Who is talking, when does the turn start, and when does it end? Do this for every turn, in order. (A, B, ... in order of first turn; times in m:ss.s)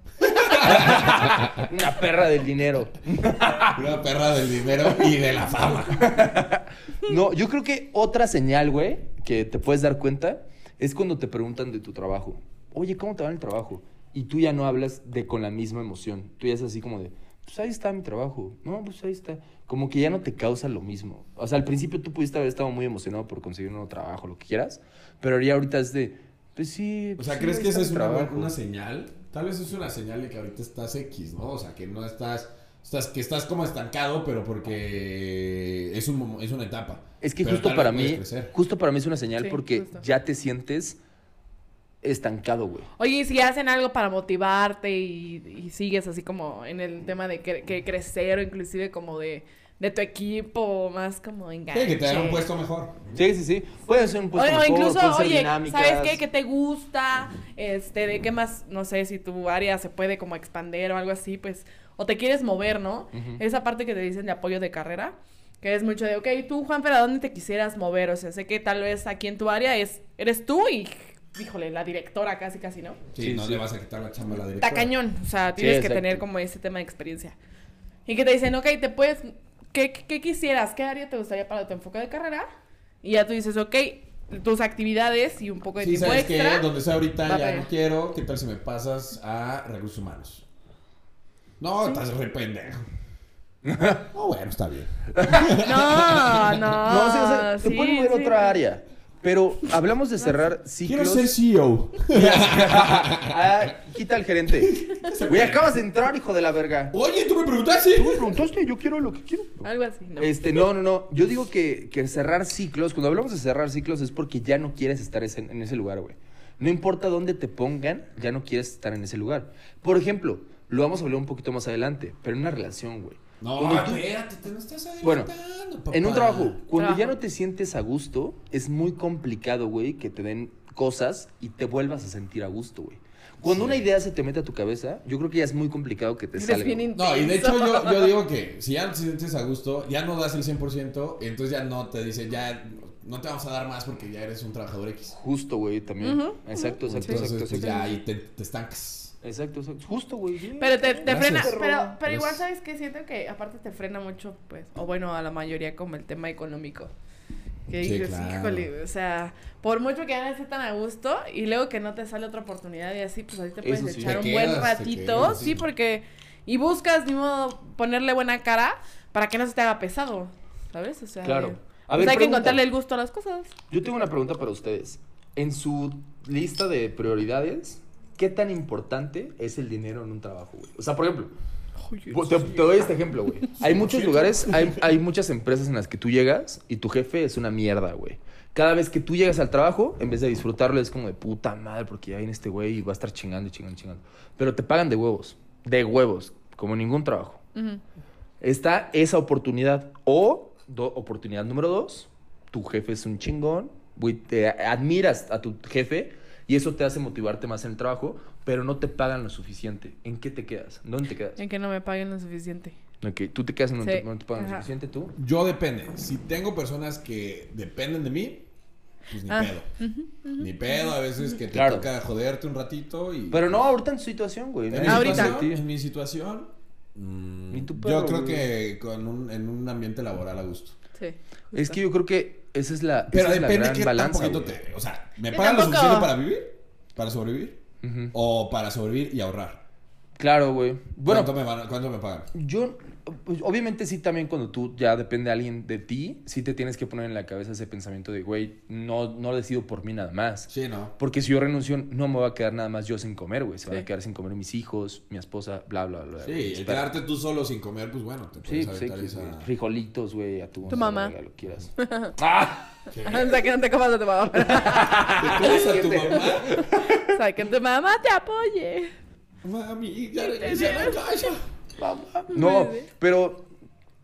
0:00.2-0:01.7 A
0:00.3-0:03.8 B
0:03.7-0:06.2 A
0:06.0-0:28.5 B
0:27.2-0:38.5 A
0:37.2-0:41.0 B
0:39.4-0:40.0 C
0:42.0-0:42.9 B
0:43.0-0:52.5 C
0:51.7-0:53.0 A
0:53.1-0:56.2 B
0:54.3-1:13.0 C
1:03.1-1:03.4 B
1:13.1-1:14.9 A
1:13.2-1:13.6 B
1:14.6-1:17.4 C
1:15.6-1:16.2 B
1:18.0-1:22.5 C
1:23.0-1:26.7 C
1:25.8-1:30.4 A
1:27.2-1:27.7 C
1:31.6-1:32.8 A
1:33.6-1:34.0 B
1:34.1-1:36.7 A
1:35.1-1:35.6 B
1:35.6-1:38.6 C
1:36.7-1:41.3 B
1:40.8-1:43.6 A
1:42.1-1:46.9 B
1:44.6-1:45.8 A
1:46.9-1:48.3 A
1:48.0-1:49.6 B
1:49.6-1:50.6 C
1:50.2-2:04.0 B
2:03.4-2:06.6 A
2:05.0-2:05.3 B
2:05.9-2:16.9 B
2:06.7-2:07.1 C
2:13.4-2:13.9 A
2:16.4-2:18.2 C
2:16.9-2:25.2 A
2:25.2-2:27.8 B
2:26.0-2:28.0 C
2:26.9-2:29.1 A
2:29.2-2:32.0 B
2:30.6-2:36.9 C
2:31.0-2:32.4 A
2:37.7-2:53.5 C
2:37.8-2:38.7 A
2:43.6-2:44.3 B
2:44.0-2:45.6 A
2:51.2-2:52.6 B
2:53.7-3:01.3 B
3:01.8-3:02.7 C
3:02.1-3:17.4 B
3:03.6-3:04.8 A
3:17.5-3:17.8 C
3:18.4-3:31.4 B
3:31.4-3:32.8 C
3:33.0-3:35.1 B
3:33.8-3:34.7 C
3:35.2-3:38.5 A
3:39.1-3:39.7 A
3:39.3-3:40.9 C
3:40.4-3:43.7 A
3:41.5-3:41.9 B
3:43.3-3:45.6 B
3:44.7-3:50.8 A
3:44.8-3:45.4 C
3:47.5-3:48.5 B
3:50.9-3:51.8 C
3:51.5-3:54.6 B
3:53.1-3:59.6 A
3:55.3-3:56.1 C
3:57.8-3:58.1 B
4:00.2-4:01.3 B
4:01.1-4:02.3 A
4:02.3-4:16.9 B
4:10.5-4:10.9 A
4:16.2-4:19.5 A
4:18.4-4:22.8 B
4:20.7-4:21.1 C
4:21.8-4:22.1 C
4:22.9-4:23.4 A
4:22.9-4:28.9 C
4:24.4-4:27.1 B
4:25.2-4:26.6 A
4:29.4-4:31.4 A
4:30.2-4:31.1 C
4:31.8-4:33.5 B
4:32.3-4:32.9 C